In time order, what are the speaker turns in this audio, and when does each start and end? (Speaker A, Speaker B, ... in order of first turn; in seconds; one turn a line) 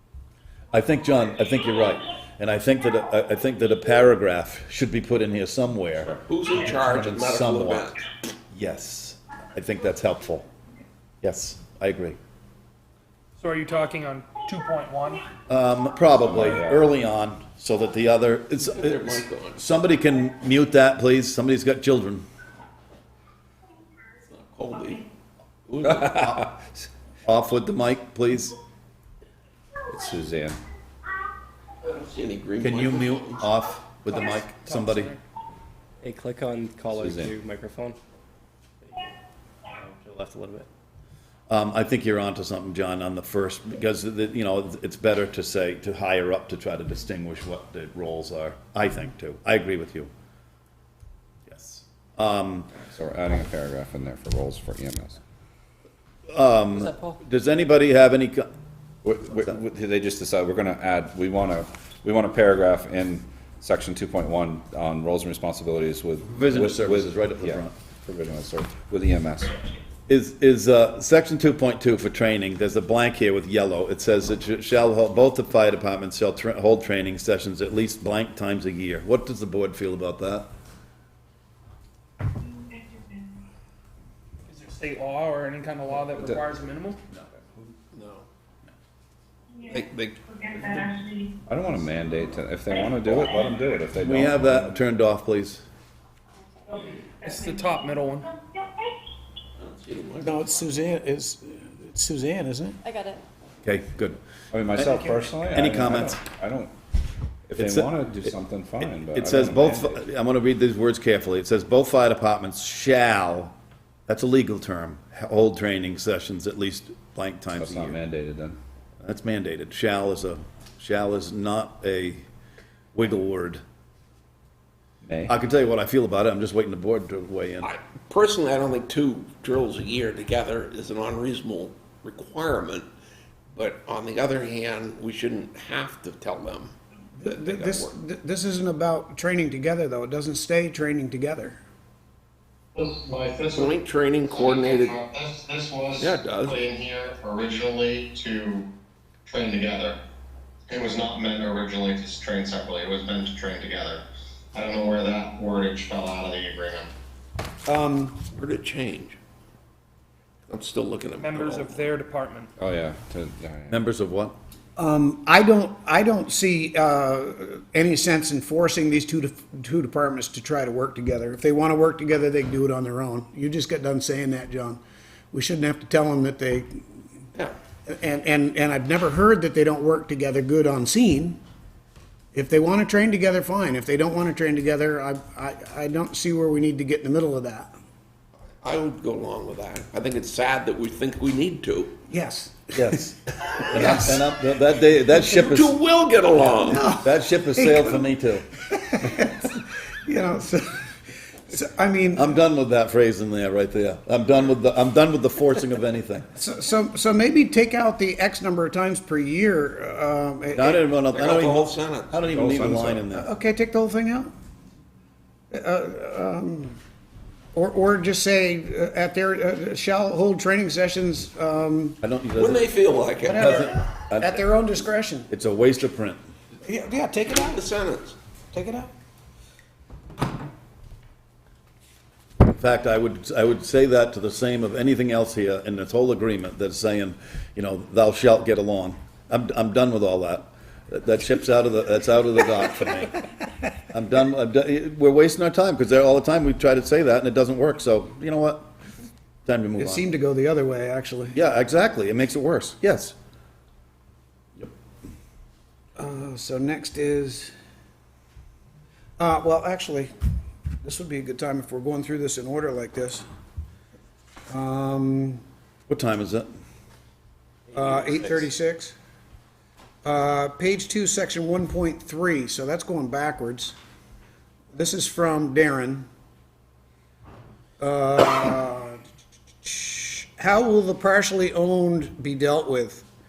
Speaker A: 0.7-7.9
Speaker B: 6.0-8.0
Speaker A: 8.5-10.5
Speaker A: 11.2-12.2
Speaker C: 13.4-15.3
Speaker A: 15.5-22.2
Speaker D: 16.2-16.9
Speaker B: 18.7-19.6
Speaker B: 24.3-25.0
Speaker B: 25.7-26.4
Speaker D: 25.9-26.9
Speaker A: 27.3-28.6
Speaker D: 29.9-30.6
Speaker B: 31.8-33.5
Speaker A: 32.6-35.1
Speaker C: 34.1-35.2
Speaker E: 36.0-38.0
Speaker D: 36.9-37.4
Speaker E: 39.8-40.7
Speaker A: 41.5-50.1
Speaker A: 51.5-52.7
Speaker D: 52.9-55.2
Speaker A: 56.3-58.5
Speaker D: 59.0-69.5
Speaker A: 66.3-67.7
Speaker A: 70.1-80.5
Speaker C: 84.5-87.0
Speaker D: 86.1-86.5
Speaker B: 87.9-88.3
Speaker B: 89.6-91.0
Speaker D: 91.5-94.8
Speaker A: 94.0-95.6
Speaker C: 97.2-98.3
Speaker B: 99.6-100.8
Speaker F: 100.2-102.8
Speaker A: 103.6-104.2
Speaker D: 104.5-106.7
Speaker A: 104.8-106.2
Speaker D: 107.5-110.0
Speaker A: 107.6-108.3
Speaker A: 109.0-113.5
Speaker A: 114.1-118.0
Speaker D: 117.5-118.6
Speaker A: 119.0-122.2
Speaker A: 122.9-123.6
Speaker D: 125.0-125.3
Speaker A: 125.3-127.7
Speaker B: 127.6-132.9
Speaker B: 133.5-138.0
Speaker F: 137.2-141.6
Speaker G: 142.8-143.7
Speaker B: 143.5-145.0
Speaker G: 144.4-148.7
Speaker B: 146.0-146.7
Speaker G: 149.3-150.0
Speaker G: 150.7-154.0
Speaker G: 154.5-156.9
Speaker F: 157.7-158.2
Speaker B: 158.3-159.2
Speaker B: 160.5-161.8
Speaker C: 161.2-162.5
Speaker D: 162.6-163.8
Speaker A: 163.7-164.3
Speaker F: 164.8-174.8
Speaker F: 175.3-176.9
Speaker F: 177.9-181.4
Speaker F: 182.3-187.7
Speaker B: 188.6-192.0
Speaker F: 192.1-192.7
Speaker A: 192.7-195.8
Speaker F: 193.7-194.2
Speaker B: 195.2-196.9
Speaker F: 196.6-198.1
Speaker A: 197.0-198.5
Speaker F: 198.7-202.3
Speaker A: 202.2-206.3
Speaker F: 206.4-210.8
Speaker A: 210.5-213.3
Speaker B: 211.1-212.2
Speaker D: 212.3-213.1
Speaker F: 213.1-214.3
Speaker F: 215.5-216.8
Speaker F: 217.5-222.0
Speaker A: 222.0-222.7
Speaker B: 222.4-223.6
Speaker F: 223.2-225.3
Speaker A: 223.3-224.4
Speaker A: 225.3-226.2
Speaker F: 226.7-227.6
Speaker B: 227.3-228.2
Speaker F: 228.5-228.9
Speaker A: 232.4-243.2
Speaker A: 243.9-248.7
Speaker A: 249.5-250.1
Speaker F: 249.8-251.4
Speaker A: 251.3-253.2
Speaker F: 256.0-257.5
Speaker F: 259.2-260.1
Speaker F: 260.8-263.2
Speaker F: 264.5-265.4
Speaker A: 265.9-266.5
Speaker B: 267.7-268.5
Speaker F: 267.7-269.0
Speaker F: 270.0-273.8
Speaker F: 274.7-276.1
Speaker F: 277.8-279.0
Speaker F: 279.6-283.1